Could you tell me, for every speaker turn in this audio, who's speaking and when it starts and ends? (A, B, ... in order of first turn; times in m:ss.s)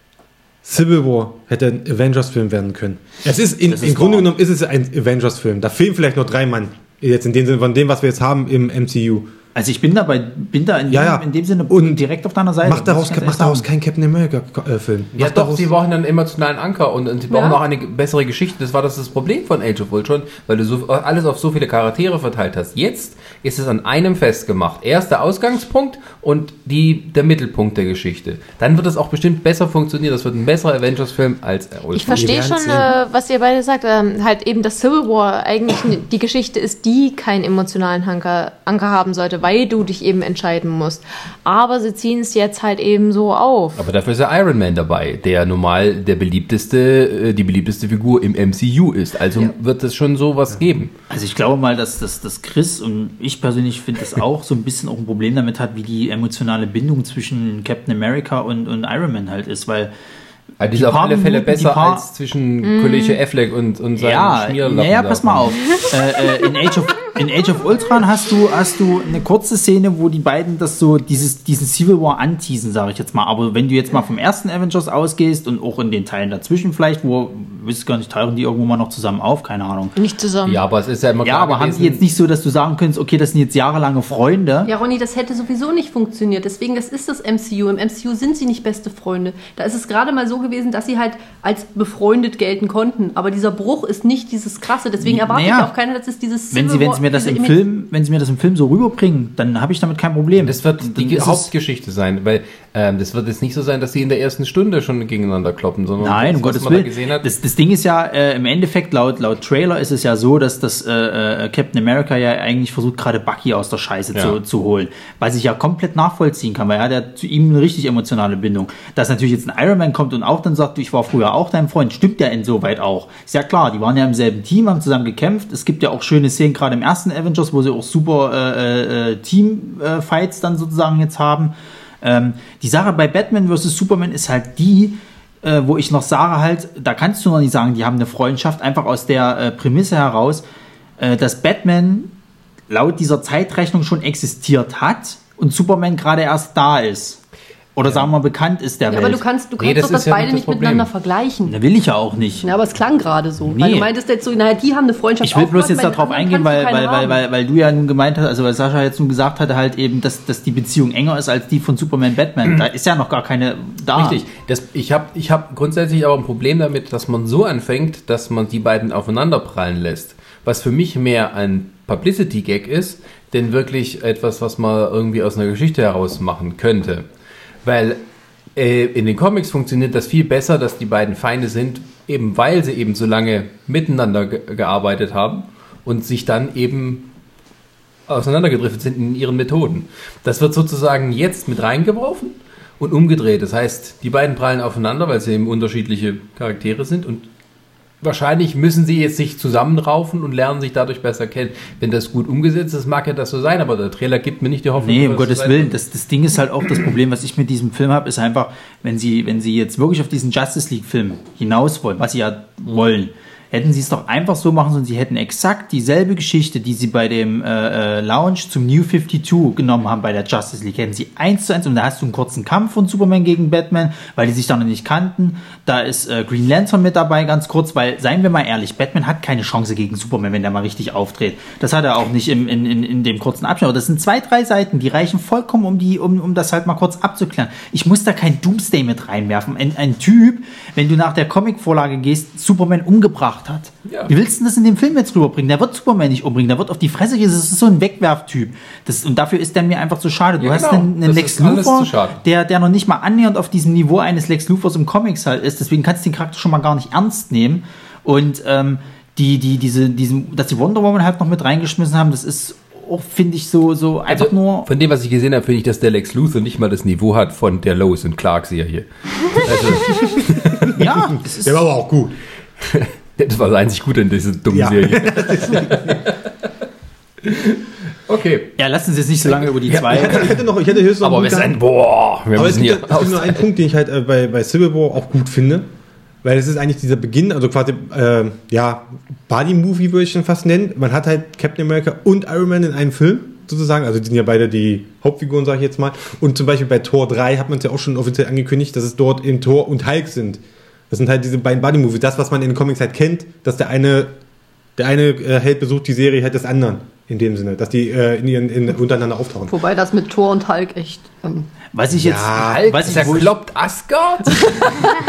0:00.6-0:09.3 A
0:03.6-0:04.3 B
0:09.5-0:13.6 B
0:10.9-0:12.0 A
0:12.6-0:15.7 A
0:15.2-0:32.5 C
0:17.3-0:17.6 D
0:31.9-0:43.8 E
0:32.1-0:32.9 A
0:43.8-0:50.9 C
0:51.1-0:59.9 B
1:00.6-1:05.6 C
1:00.7-1:02.0 B
1:02.6-1:03.2 E
1:04.0-1:19.9 B
1:20.0-1:20.6 E
1:20.4-1:22.0 C
1:21.2-1:24.7 B
1:24.6-1:37.6 D
1:35.0-1:35.7 B
1:36.5-1:41.5 B
1:40.4-1:47.2 C
1:46.0-2:20.4 B
2:21.0-2:22.1 B
2:22.7-2:27.2 B
2:27.7-2:29.2 B
2:28.9-2:31.6 D
2:29.6-2:30.9 C
2:31.4-2:32.5 B
2:32.4-2:37.2 D
2:33.4-2:33.9 B
2:35.2-2:44.2 B
2:44.0-2:57.0 C
2:57.6-2:58.0 C
2:58.5-3:07.1 C
3:08.1-3:17.3 C
3:18.0-3:25.7 C
3:24.8-4:24.7 B
4:03.8-4:04.1 C
4:10.4-4:12.2 C
4:24.1-4:30.8 C
4:30.7-4:31.7 B
4:31.2-4:32.2 A
4:32.6-4:36.3 C
4:34.5-4:36.1 A
4:37.2-4:38.5 C
4:38.6-4:40.3 B
4:39.8-4:41.6 A
4:41.0-4:43.4 C
4:42.3-4:45.7 A
4:46.2-5:04.1 A
5:04.8-5:09.5 A
5:09.5-5:11.5 D
5:11.7-5:13.3 B
5:11.9-5:12.6 A
5:12.3-5:14.9 C